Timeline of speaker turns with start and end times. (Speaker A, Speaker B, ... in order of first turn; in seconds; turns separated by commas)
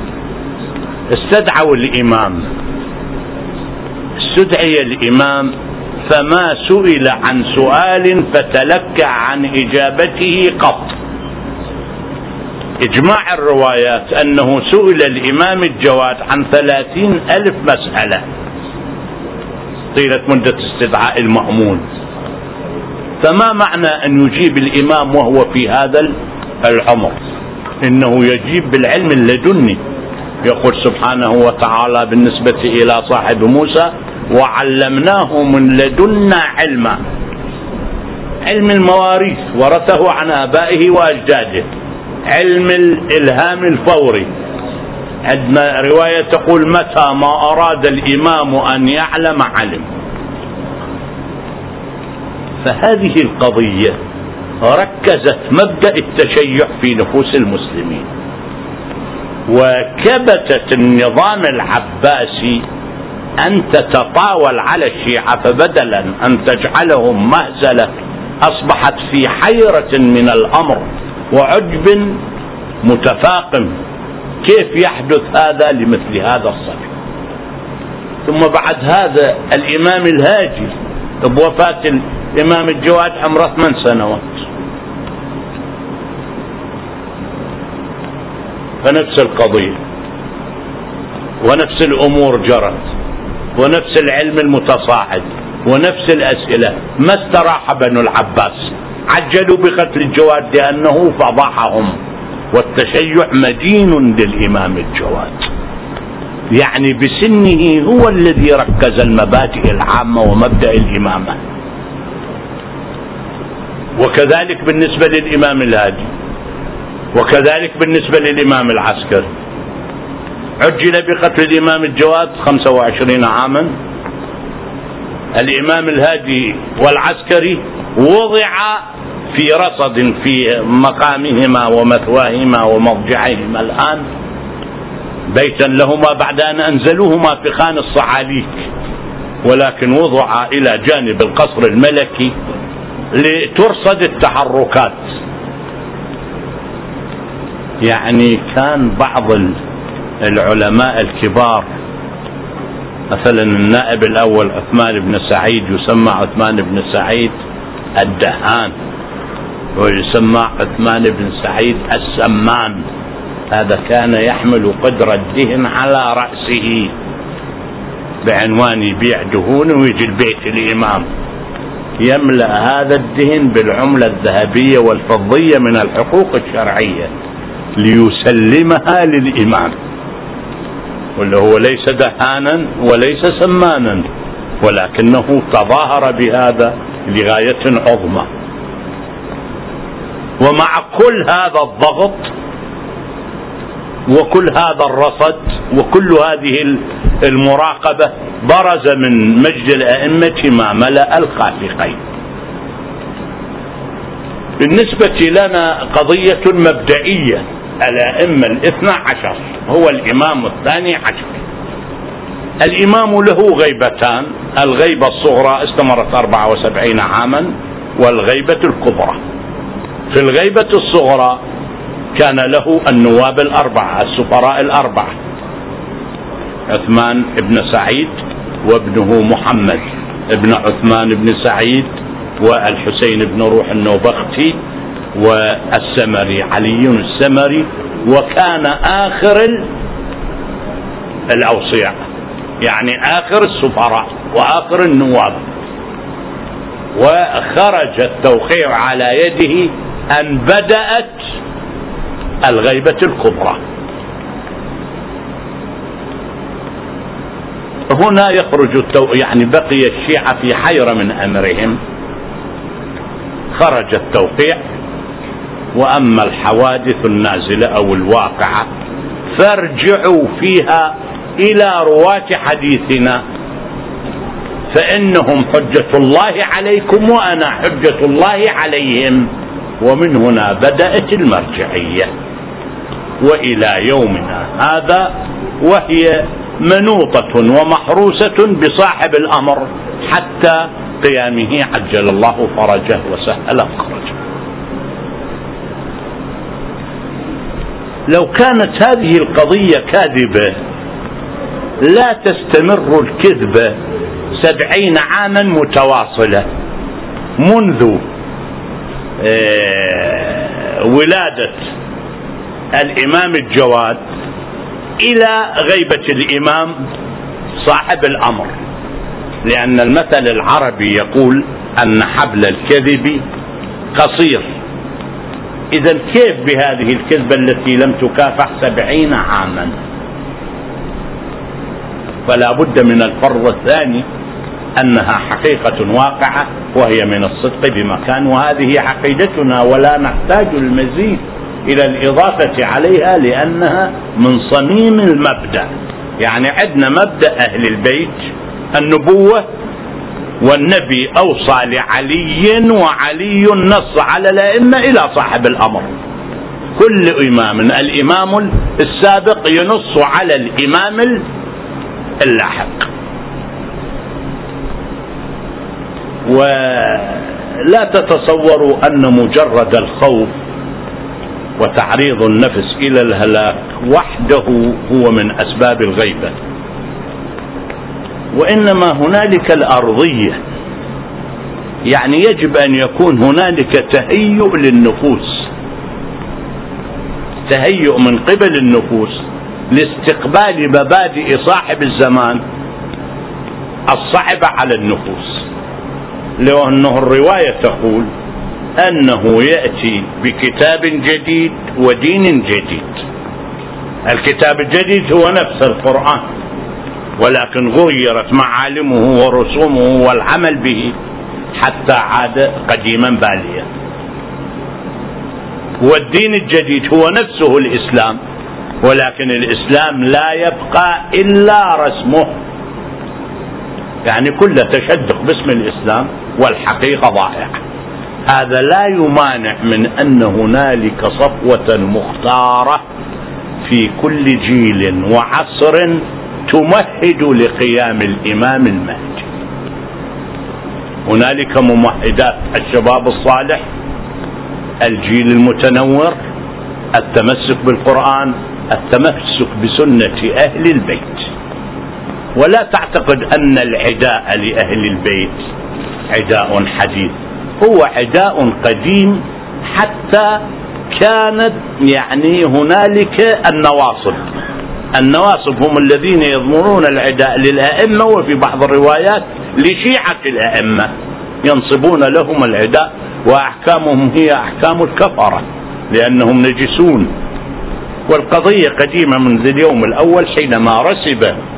Speaker A: 1.1-2.5, Speaker A: 4.2-5.5, Speaker A: 6.0-11.0, Speaker A: 12.8-18.2, Speaker A: 19.9-21.8, Speaker A: 23.2-27.2, Speaker A: 27.8-29.8, Speaker A: 30.4-37.0, Speaker A: 38.5-41.7, Speaker A: 42.3-44.3, Speaker A: 45.2-49.9, Speaker A: 52.6-54.0, Speaker A: 54.6-58.1, Speaker A: 59.5-62.6, Speaker A: 63.4-72.2, Speaker A: 72.8-73.7, Speaker A: 74.4-76.9, Speaker A: 78.2-84.5, Speaker A: 88.8-89.8, Speaker A: 91.4-92.9, Speaker A: 93.6-101.9, Speaker A: 102.5-105.5, Speaker A: 106.5-111.4, Speaker A: 114.0-116.1, Speaker A: 117.1-119.3, Speaker A: 120.6-123.7, Speaker A: 125.3-134.1, Speaker A: 135.3-138.7, Speaker A: 139.4-142.3, Speaker A: 143.1-145.0, Speaker A: 147.8-149.6, Speaker A: 150.2-151.7, Speaker A: 153.1-157.3, Speaker A: 157.9-158.7, Speaker A: 159.8-162.8, Speaker A: 163.5-166.9, Speaker A: 168.2-171.1, Speaker A: 172.0-177.1, Speaker A: 177.8-179.8, Speaker A: 181.2-184.1, Speaker A: 184.6-188.3, Speaker A: 190.4-192.3, Speaker A: 194.1-202.0, Speaker A: 204.6-211.4, Speaker A: 212.6-219.2, Speaker A: 220.1-221.4, Speaker A: 222.1-225.2, Speaker A: 226.7-231.9, Speaker A: 232.4-234.6, Speaker A: 235.1-239.7, Speaker A: 241.3-242.0, Speaker A: 242.6-245.4, Speaker A: 246.9-251.3, Speaker A: 252.4-253.6, Speaker A: 257.9-261.8, Speaker A: 263.5-264.6, Speaker A: 265.7-268.7, Speaker A: 269.3-273.2, Speaker A: 274.7-279.3, Speaker A: 279.8-282.1, Speaker A: 283.2-294.1, Speaker A: 298.1-300.6, Speaker A: 301.8-303.8, Speaker A: 304.3-306.5, Speaker A: 307.4-308.0, Speaker A: 309.2-311.7, Speaker A: 312.7-314.0, Speaker A: 315.0-316.9, Speaker A: 317.6-318.5, Speaker A: 319.4-323.2, Speaker A: 323.9-324.5, Speaker A: 325.7-329.8, Speaker A: 332.3-334.1, Speaker A: 334.8-349.4, Speaker A: 350.4-355.9, Speaker A: 356.8-361.2, Speaker A: 362.2-362.9, Speaker A: 366.2-370.3, Speaker A: 371.6-376.4, Speaker A: 378.3-380.4, Speaker A: 381.9-385.5, Speaker A: 387.5-392.4, Speaker A: 393.9-395.4, Speaker A: 396.4-398.1, Speaker A: 398.8-403.0, Speaker A: 404.1-406.3, Speaker A: 407.2-410.9, Speaker A: 411.5-413.7, Speaker A: 415.8-418.2, Speaker A: 418.8-422.3, Speaker A: 424.0-427.6, Speaker A: 428.3-432.8, Speaker A: 433.6-439.3, Speaker A: 441.1-443.6, Speaker A: 444.8-446.2, Speaker A: 446.9-451.3, Speaker A: 452.4-455.5, Speaker A: 456.1-464.2, Speaker A: 464.9-470.9, Speaker A: 471.4-477.1, Speaker A: 478.1-481.4